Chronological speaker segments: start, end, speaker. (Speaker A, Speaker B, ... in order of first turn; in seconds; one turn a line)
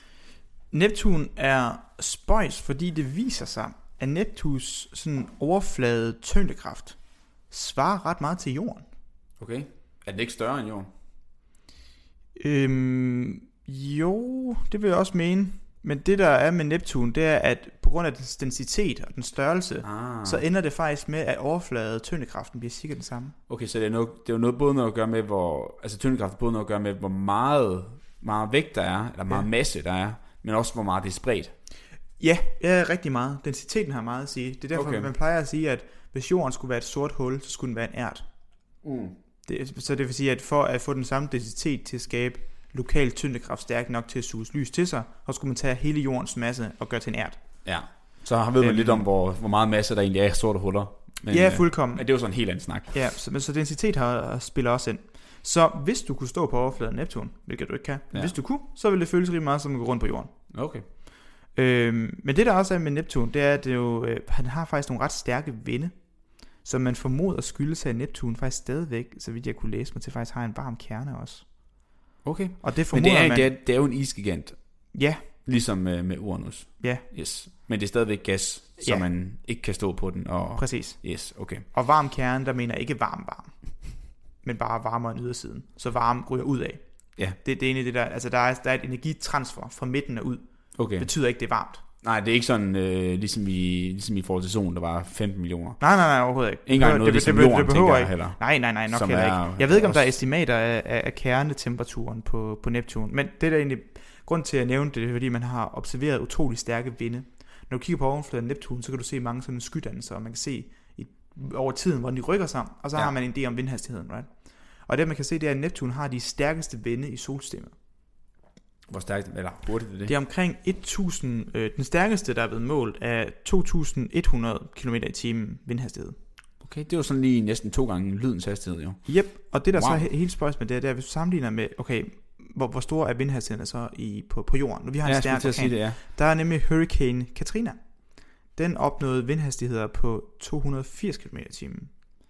Speaker A: 0.7-8.9
Speaker B: 9.4-10.9
Speaker A: 12.3-23.4
Speaker B: 19.8-20.4
Speaker B: 23.5-31.5
Speaker A: 32.2-38.3
Speaker B: 34.7-35.1
Speaker B: 38.8-39.1
Speaker A: 39.5-48.0
Speaker B: 47.6-53.0
Speaker A: 48.6-49.1
Speaker A: 51.3-60.3
Speaker B: 60.5-60.9
Speaker A: 61.5-72.0
Speaker B: 72.2-81.7
Speaker A: 72.6-73.5
Speaker A: 74.9-75.2
Speaker A: 76.8-77.0
Speaker A: 78.8-79.1
Speaker A: 80.6-91.8
Speaker B: 90.8-91.1
Speaker B: 92.0-96.0
Speaker A: 95.8-117.7
Speaker B: 96.7-100.2
Speaker B: 118.9-120.1
Speaker A: 120.1-126.2
Speaker B: 126.6-130.1
Speaker A: 129.1-141.9
Speaker B: 135.1-136.0